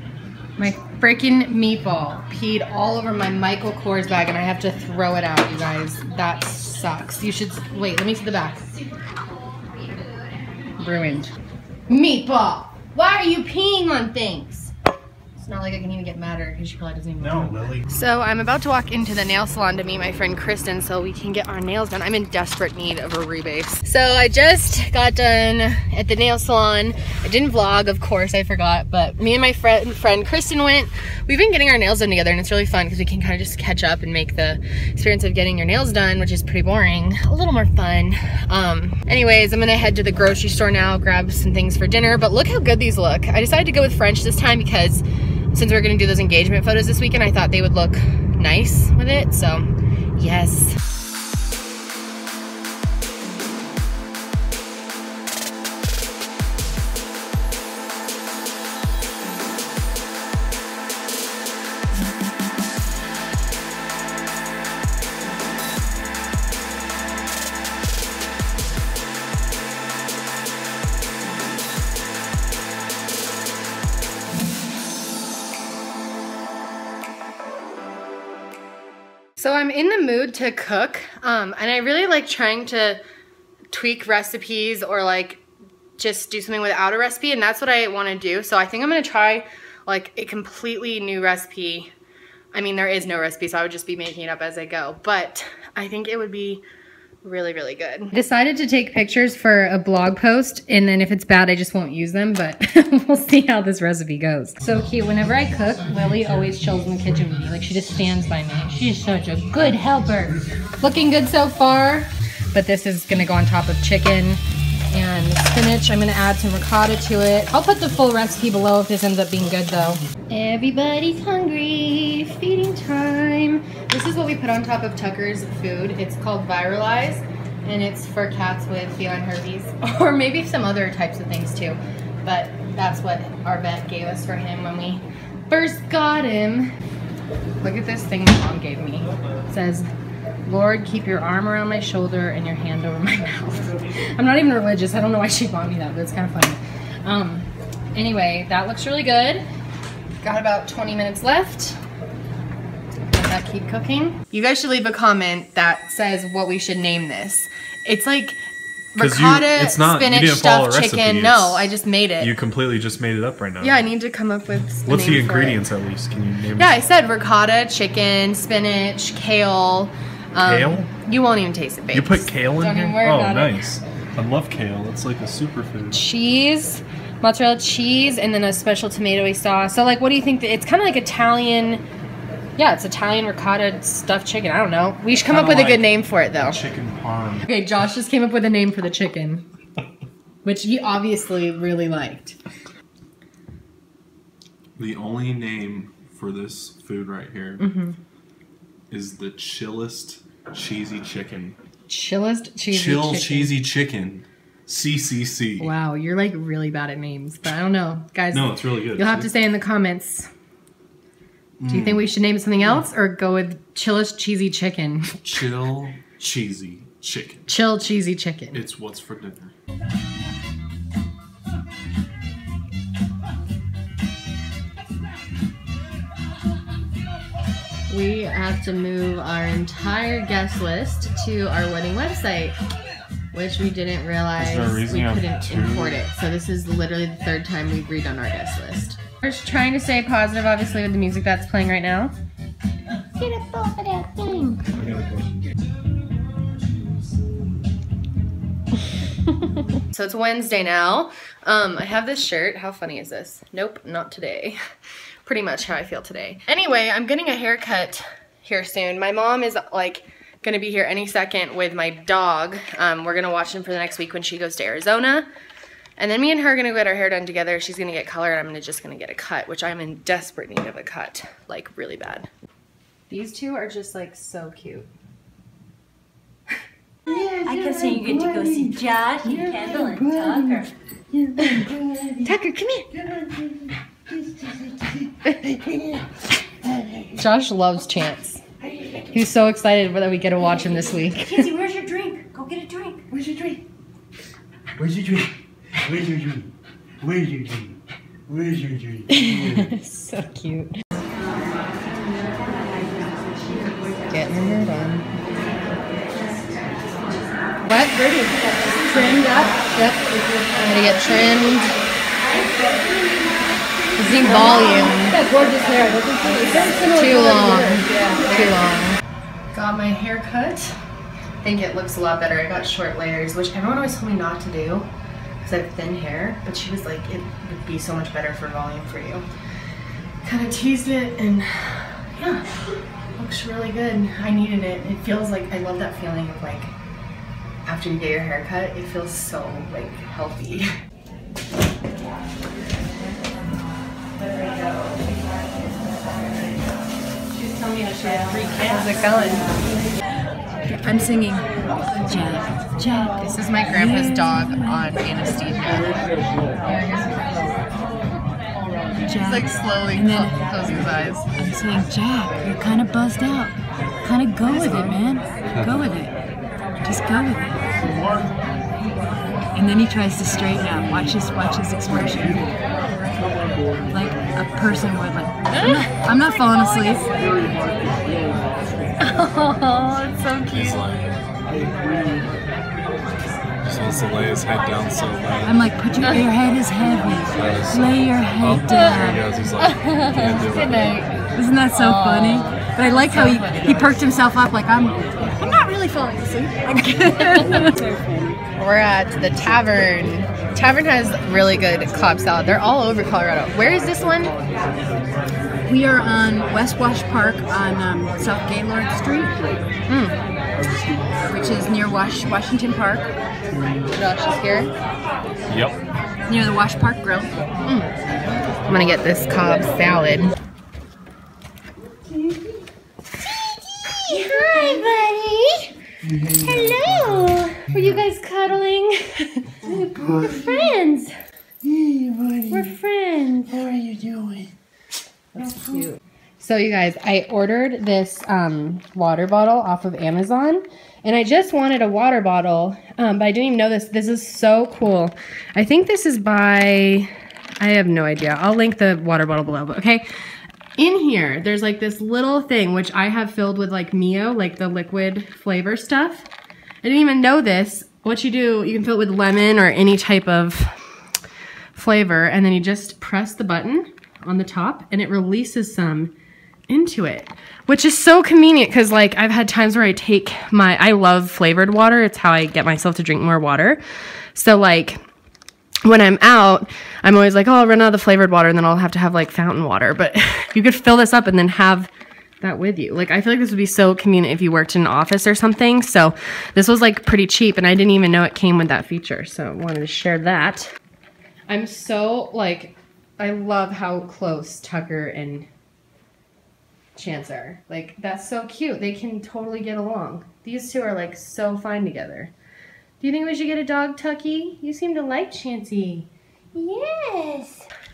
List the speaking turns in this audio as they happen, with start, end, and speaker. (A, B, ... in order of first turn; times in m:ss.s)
0:00.6-0:08.7 A
0:10.8-0:11.3 A
0:11.9-0:14.7 A
0:15.4-0:50.8 A
0:17.4-0:17.8 B
1:19.4-1:23.0 A
1:23.7-1:25.4 A
1:26.0-1:31.9 A
1:32.5-1:36.6 A
1:37.2-2:16.8 A
2:17.6-2:19.9 A
2:20.4-2:29.4 A
2:30.2-2:31.8 A
2:33.1-2:38.4 A
2:38.9-2:42.3 A
2:39.0-2:43.8 B
2:43.6-2:45.6 A
2:44.8-2:46.7 B
2:46.6-2:53.7 A
2:50.4-2:50.9 B
2:51.9-2:56.0 B
2:55.9-3:01.8 A
3:02.6-3:06.6 A
3:05.2-3:07.5 B
3:07.4-3:09.4 A
3:10.4-3:12.4 A
3:14.8-3:17.6 B
3:17.6-3:18.0 A
3:18.9-3:21.6 B
3:21.9-3:23.6 A
3:22.7-3:25.7 B
3:25.6-3:30.3 A
3:28.3-3:29.3 B
3:31.6-3:32.0 B
3:31.7-3:35.2 A
3:35.2-3:37.4 B
3:37.5-3:38.6 A
3:38.5-3:39.5 B
3:47.9-3:52.6 A
3:53.3-4:02.1 A
3:54.4-3:56.0 B
4:03.2-4:04.8 A
4:04.7-4:05.3 B
4:09.8-4:14.6 A
4:15.2-4:25.3 A
4:26.0-4:32.3 A
4:33.1-4:34.9 A
4:37.1-4:42.3 C
4:39.3-4:40.1 A
4:41.4-4:42.9 A
4:45.2-4:45.8 A
4:47.1-4:48.4 A
4:49.1-4:51.5 A
4:50.8-4:53.1 C
4:53.1-4:53.6 D
4:54.8-4:56.5 D
4:57.0-4:57.8 D
4:58.3-4:59.1 D
4:59.1-5:00.8 A
5:02.9-5:03.7 C
5:04.1-5:05.1 A
5:07.6-5:08.0 A
5:07.9-5:09.7 C
5:08.8-5:11.8 A
5:12.2-5:18.7 C
5:13.9-5:15.2 A
5:16.6-5:19.0 A
5:19.5-5:20.8 A
5:21.4-5:24.9 A
5:25.4-5:29.2 A
5:30.2-5:32.6 A
5:33.2-5:36.7 A
5:37.6-5:40.7 A
5:44.2-5:45.0 A
5:47.3-5:49.6 C
5:48.5-5:49.5 A
5:50.7-5:54.9 C
5:51.9-5:52.2 A
5:53.1-5:56.0 A
5:56.6-5:57.5 A
5:59.0-6:00.4 C
5:59.1-6:01.3 A
6:01.4-6:06.1 C
6:04.6-6:05.0 A
6:05.5-6:05.8 B
6:06.8-6:07.6 C
6:09.5-6:12.6 C
6:13.9-6:18.5 C
6:15.5-6:15.9 A
6:19.0-6:20.8 A
6:20.4-6:21.2 B
6:23.6-6:25.7 B
6:25.4-6:38.4 C
6:26.0-6:26.3 A
6:27.3-6:31.1 B
6:28.7-6:29.1 A
6:31.7-6:33.9 A
6:37.0-6:37.7 A
6:38.6-6:44.3 A
6:45.6-6:49.6 C
6:49.9-6:50.1 A
6:51.3-6:53.1 C
6:53.9-6:54.7 A
6:55.5-6:55.8 B
6:56.3-6:57.3 C
6:57.6-6:57.9 A
6:58.7-7:00.3 A
7:04.0-7:11.1 A
7:04.5-7:04.8 C
7:11.7-7:12.3 C
7:12.5-7:13.6 A
7:13.7-7:14.4 C
7:15.3-7:30.0 A
7:30.8-7:36.3 A
7:36.8-7:40.8 A
7:41.7-7:46.1 A
7:46.7-7:53.8 A
7:54.3-7:55.0 A
7:55.8-8:01.9 A
8:02.4-8:10.7 A
8:11.5-8:15.5 A
8:17.0-8:22.3 A
8:23.0-8:27.7 A